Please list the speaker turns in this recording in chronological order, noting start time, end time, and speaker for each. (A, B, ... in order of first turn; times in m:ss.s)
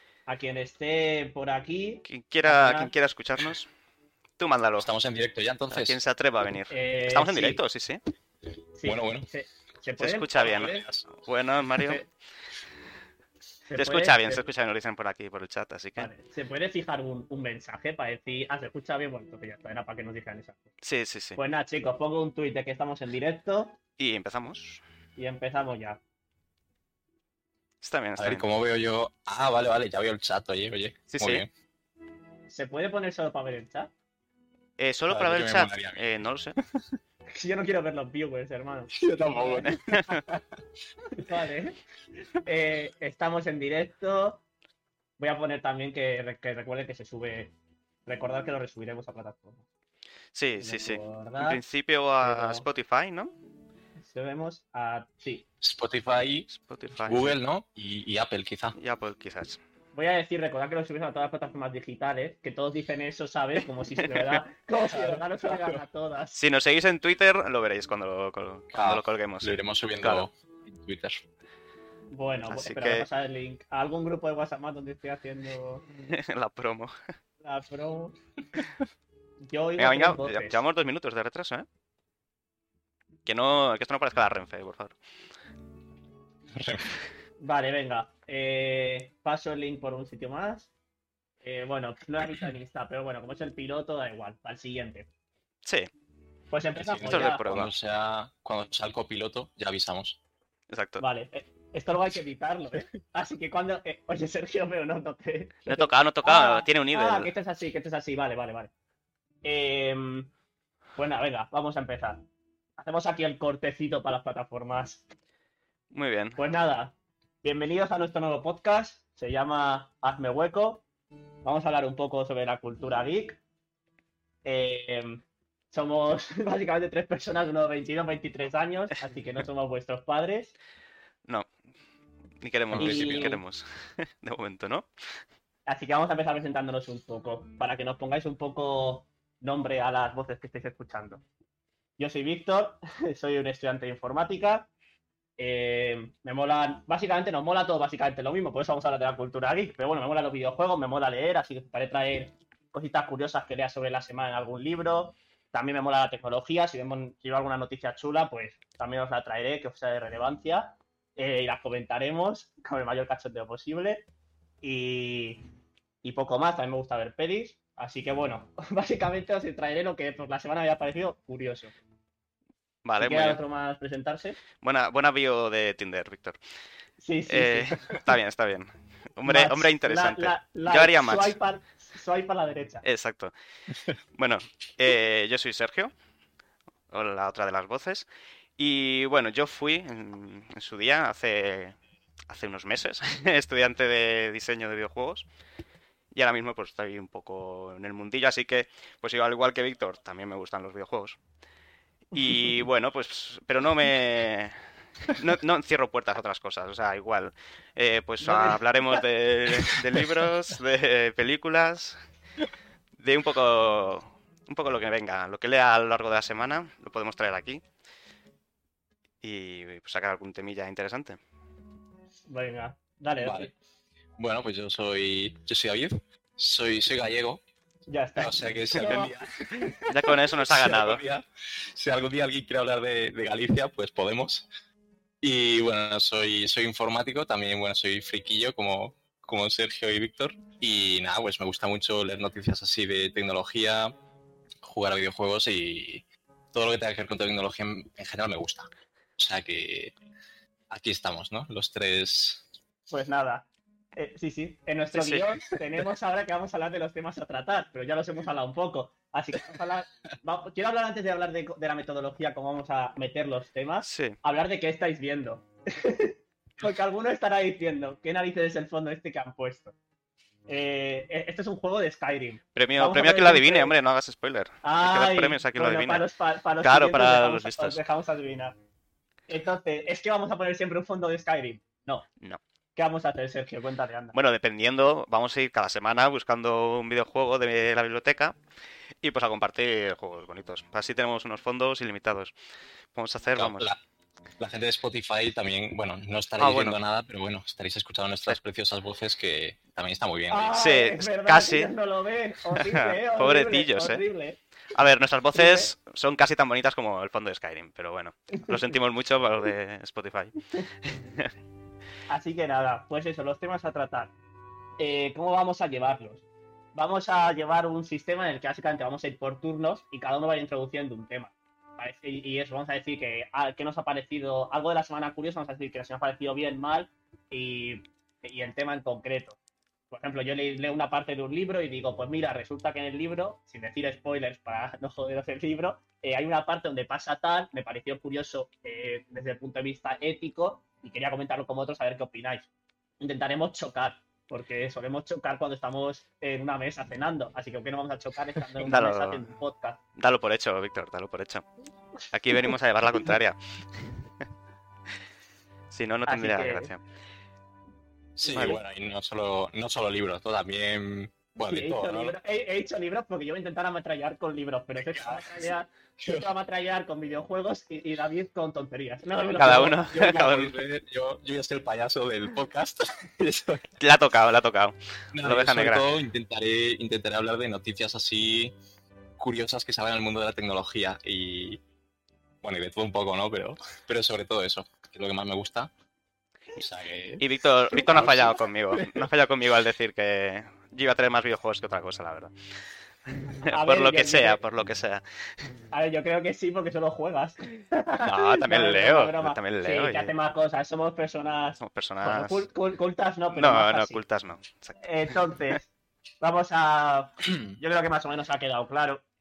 0:00.3-0:02.9 A
0:02.1-0:03.7 B
0:04.4-0:04.9 B
0:04.8-0:06.0 C
0:05.7-0:08.0 B
0:06.7-0:07.6 A
0:08.8-0:10.9 A
0:08.8-0:09.3 C
0:10.0-0:12.0 B
0:10.4-0:11.1 C
0:11.8-0:12.0 A
0:13.6-0:14.4 A
0:13.8-0:16.1 B
0:16.0-0:20.7 A
0:20.8-0:21.4 B
0:21.4-0:23.8 A
0:24.0-0:24.8 B
0:25.2-0:26.0 A
0:27.8-0:28.4 B
0:28.2-0:31.5 C
0:31.1-0:31.4 B
0:32.5-0:33.9 A
0:34.8-0:36.6 B
0:35.1-0:36.0 C
0:37.3-0:39.8 A
0:39.0-0:39.8 C
0:39.6-0:40.2 B
0:41.1-0:41.8 A
0:42.4-0:44.4 A
0:45.2-0:47.5 A
0:48.0-0:49.6 A
0:50.3-0:53.3 B
0:50.6-0:51.6 A
0:52.2-0:52.7 A
0:54.0-0:55.4 A
0:55.6-0:56.5 C
0:56.5-0:57.4 B
0:57.0-0:58.8 C
0:58.8-0:59.6 B
0:59.9-1:06.4 A
1:04.0-1:04.4 B
1:04.9-1:05.8 C
1:06.3-1:10.3 B
1:08.7-1:11.2 C
1:12.1-1:15.8 A
1:12.5-1:13.1 B
1:16.1-1:16.9 B
1:17.4-1:18.2 A
1:19.4-1:20.6 A
1:19.8-1:21.6 B
1:23.2-1:25.0 B
1:26.5-1:26.9 C
1:27.4-1:30.7 A
1:31.4-1:35.1 A
1:35.6-1:35.9 B
1:36.5-1:37.5 A
1:36.8-1:40.2 C
1:37.0-1:37.7 B
1:40.7-1:41.0 B
1:41.0-1:48.7 A
1:45.6-1:47.3 B
1:49.4-1:50.3 A
1:51.0-1:52.2 A
1:52.8-1:55.0 A
1:55.9-1:56.4 B
1:56.4-2:00.8 A
2:01.4-2:03.4 A
2:04.4-2:10.5 A
2:12.4-2:14.9 B
2:12.7-2:13.4 C
2:12.7-2:13.4 A
2:15.7-2:21.2 A
2:22.0-2:24.7 A
2:25.4-2:44.0 A
2:44.6-2:45.4 A
2:46.0-2:51.7 A
2:52.8-2:53.4 B
2:53.0-2:54.4 A
2:54.6-2:56.4 B
2:57.0-2:58.0 A
2:57.3-3:01.4 B
2:59.2-3:02.8 A
3:02.8-3:03.3 B
3:04.1-3:05.9 B
3:06.9-3:08.1 B
3:08.6-3:11.8 B
3:12.3-3:15.3 B
3:16.1-3:21.2 B
3:22.1-3:22.5 A
3:22.1-3:32.0 B
3:28.2-3:29.0 A
3:33.0-3:37.6 B
3:39.2-3:41.2 B
3:42.3-3:43.5 A
3:43.2-3:43.5 C
3:44.2-3:47.4 C
3:47.9-3:49.1 A
3:48.2-3:54.5 C
3:49.8-3:51.0 B
3:55.2-4:03.9 C
4:04.6-4:09.9 C
4:10.7-4:12.4 C
4:12.9-4:29.7 A
4:14.9-4:15.3 B
4:23.8-4:24.2 B
4:30.5-4:33.7 A
4:32.5-4:36.0 B
4:34.6-4:38.5 A
4:36.6-4:37.8 B
4:39.3-4:42.0 A
4:42.8-4:44.1 A
4:44.1-4:48.4 B
4:49.0-4:52.3 B
4:52.9-4:53.7 B
4:53.4-4:53.8 C
4:54.4-5:00.5 C
4:56.4-4:56.8 B
5:00.3-5:04.4 A
5:00.5-5:01.7 B
5:02.5-5:04.0 B
5:04.7-5:11.3 B
5:05.3-5:05.7 A
5:12.1-5:14.1 A
5:14.8-5:16.2 A
5:16.7-5:29.4 A
5:29.9-5:42.5 A
5:43.0-5:49.8 A
5:48.6-5:49.2 B
5:50.0-5:51.4 B
5:52.1-5:53.9 B
5:55.7-5:56.8 B
5:56.1-5:56.7 A
5:58.2-6:02.2 C
5:58.3-5:58.6 A
5:58.3-5:58.6 B
6:01.4-6:09.9 A
6:04.8-6:06.3 C
6:09.4-6:10.6 B
6:09.4-6:13.7 C
6:13.8-6:15.8 B
6:15.1-6:18.5 C
6:19.2-6:21.6 C
6:22.4-6:25.7 C
6:26.6-6:29.1 C
6:27.2-6:32.3 B
6:33.2-6:35.0 B
6:33.4-6:34.4 A
6:35.7-6:44.0 A
6:38.0-6:40.1 B
6:41.6-6:42.4 B
6:43.3-6:45.3 B
6:44.8-6:49.0 A